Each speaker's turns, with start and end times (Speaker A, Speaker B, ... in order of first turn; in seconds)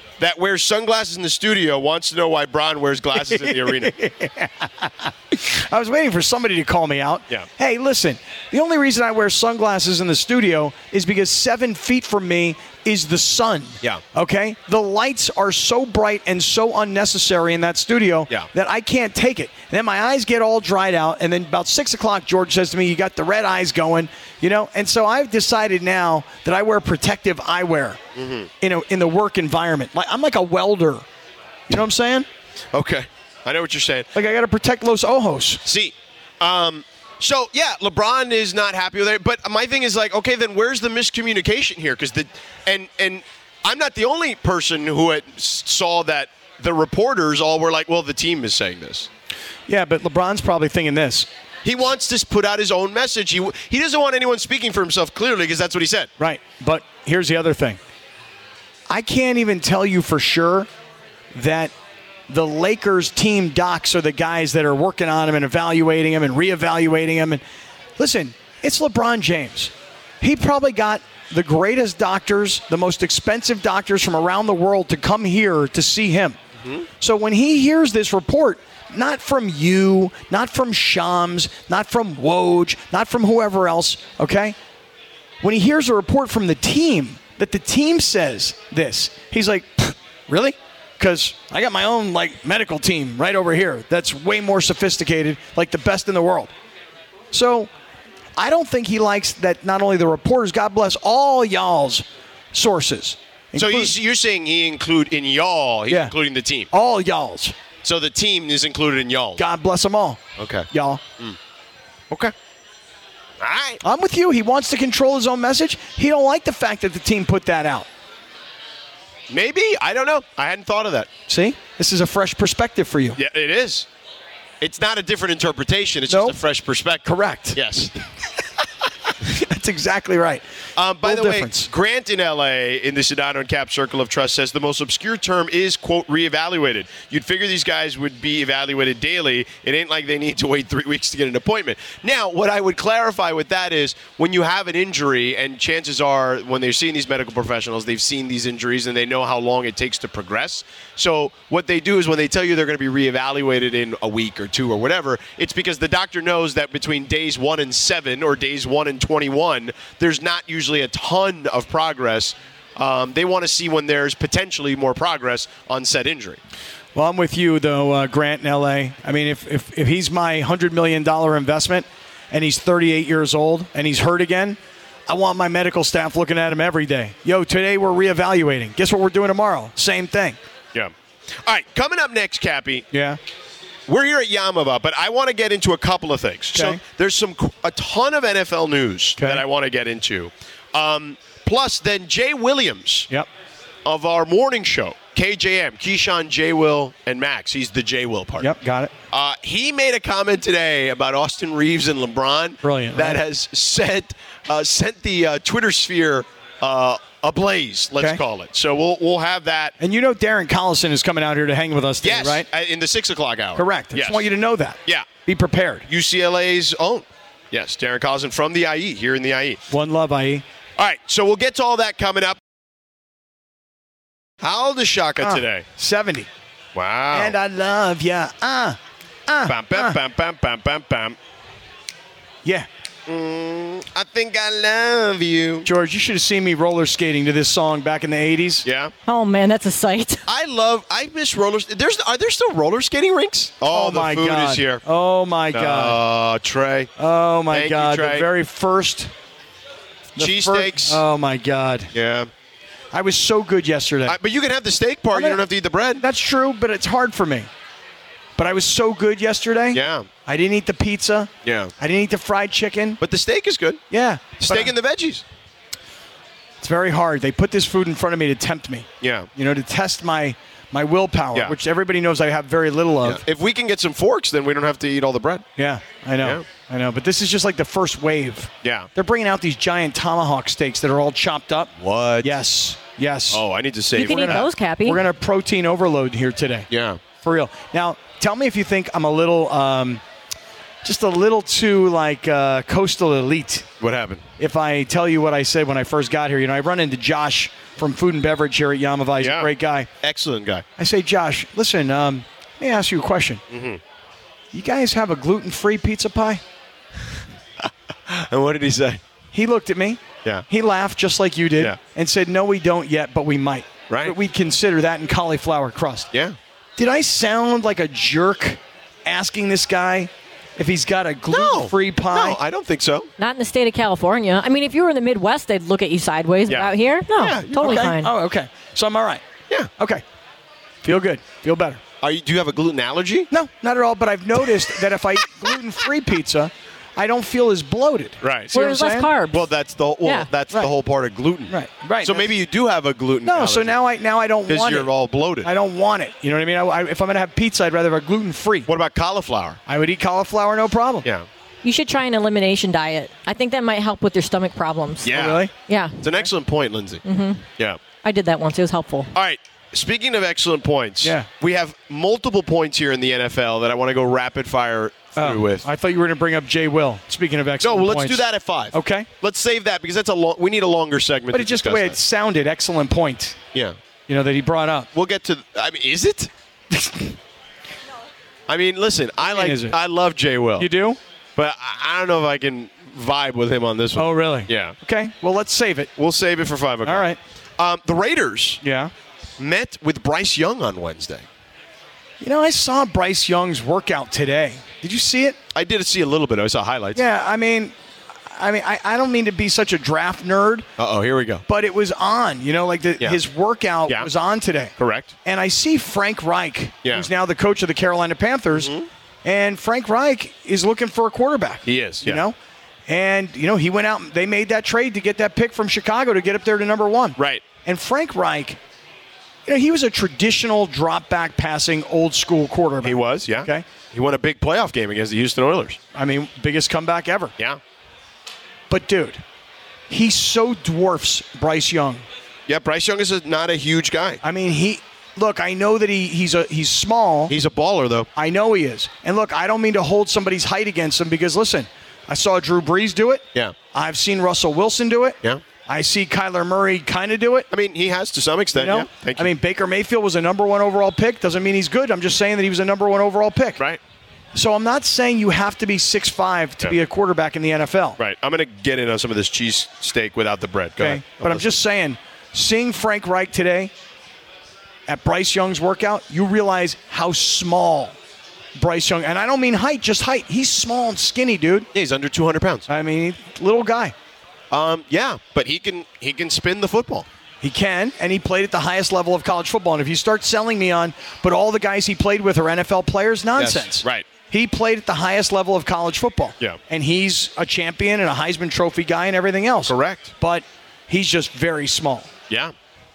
Speaker A: 0.2-3.9, 28.1-28.5, 32.7-34.1, 35.6-49.1, 51.6-56.1, 103.5-106.7, 107.8-109.4, 110.4-110.7, 113.4-113.8, 119.3-121.1, 123.2-123.9, 124.6-127.9, 130.8-166.4, 181.4-182.8, 183.9-193.1, 193.8-198.5, 199.1-209.7, 212.0-214.3, 215.9-219.6, 220.8-222.4, 224.4-225.6, 226.7-227.3, 229.4-231.2, 233.1-235.7, 238.6-238.9, 240.3-244.8, 245.5-246.9, 247.5-248.3, 250.2-251.0, 251.9-252.3, 254.1-256.0, 259.7-260.1, 261.4-261.7, 263.0-263.8, 264.4-265.2, 269.0-269.3, 273.0-275.4, 278.6-278.9, 281.8-282.4, 283.3-284.5, 286.7-287.0, 293.8-294.2, 299.2-299.5, 300.0-300.6, 303.5-303.8, 308.1-309.0, 313.9-314.1, 321.3-323.1, 326.5-327.9, 332.0-333.3, 338.2-338.5, 339.3-341.5, 342.0-343.8, 344.5-345.5, 348.7-349.6, 355.0-355.5, 356.0-357.0, 359.1-365.6, 367.6-372.0, 374.9-376.3, 378.5-380.7, 381.4-384.7, 386.0-388.6, 389.4-391.2, 395.5-397.0, 400.8-401.4, 404.8-405.1, 408.5-408.9, 411.6-412.2, 417.2-417.4, 422.8-425.8, 432.5-434.2, 437.3-438.1, 447.5-449.3, 458.0-461.5, 471.7-472.7, 474.5-477.1, 483.4-484.1, 489.7-490.1
Speaker B: 3.1-28.0, 28.6-31.0, 31.7-32.3, 34.1-35.6, 49.7-51.3, 56.2-57.8, 58.9-60.7, 61.3-61.7, 62.3-67.4, 68.0-76.4, 77.0-84.5, 85.4-96.5, 97.3-97.7, 98.4-103.9, 106.7-107.5, 109.4-111.0, 113.8-117.9, 121.3-123.2, 126.1-126.3, 127.0-127.6, 129.2-130.4, 131.0-131.7, 166.9-180.4, 182.9-183.2, 186.5-186.8, 189.2-189.4, 198.4-198.9, 202.6-203.2, 209.8-212.4, 213.6-215.9, 219.7-220.4, 225.2-226.3, 227.1-229.9, 235.6-238.6, 243.7-246.0, 247.0-249.1, 250.2-251.9, 252.9-254.2, 255.1-255.4, 256.0-257.5, 258.4-263.0, 263.9-264.7, 266.6-273.2, 275.6-281.7, 282.2-283.4, 284.1-286.7, 287.2-290.0, 290.8-293.7, 294.4-299.9, 300.8-303.4, 304.5-306.4, 309.3-316.1, 316.8-322.4, 327.5-329.2, 329.8-330.0, 330.8-331.8, 333.3-339.1, 341.5-342.3, 343.2-344.9, 345.4-348.7, 349.7-351.1, 355.1-355.5, 361.0-361.3, 365.2-369.1, 371.3-373.4, 374.1-374.9, 376.7-377.1, 379.2-379.8, 380.6-381.0, 383.9-385.9, 386.8-387.2, 388.6-388.9, 392.2-395.4, 396.9-397.7, 398.3-400.7, 401.5-404.7, 405.2-408.7, 409.2-412.4, 412.9-418.6, 419.5-423.6, 425.9-427.3, 428.7-429.2, 429.9-432.0, 434.2-437.3, 438.1-447.5, 448.5-453.6, 454.3-458.0, 460.8-463.7, 464.9-467.9, 468.6-471.7, 472.7-473.9, 477.4-492.1
Speaker C: 239.1-240.2, 283.9-285.0, 323.2-328.1, 338.5-339.5, 340.0-340.3, 351.6-356.0, 357.0-357.4, 358.0-359.1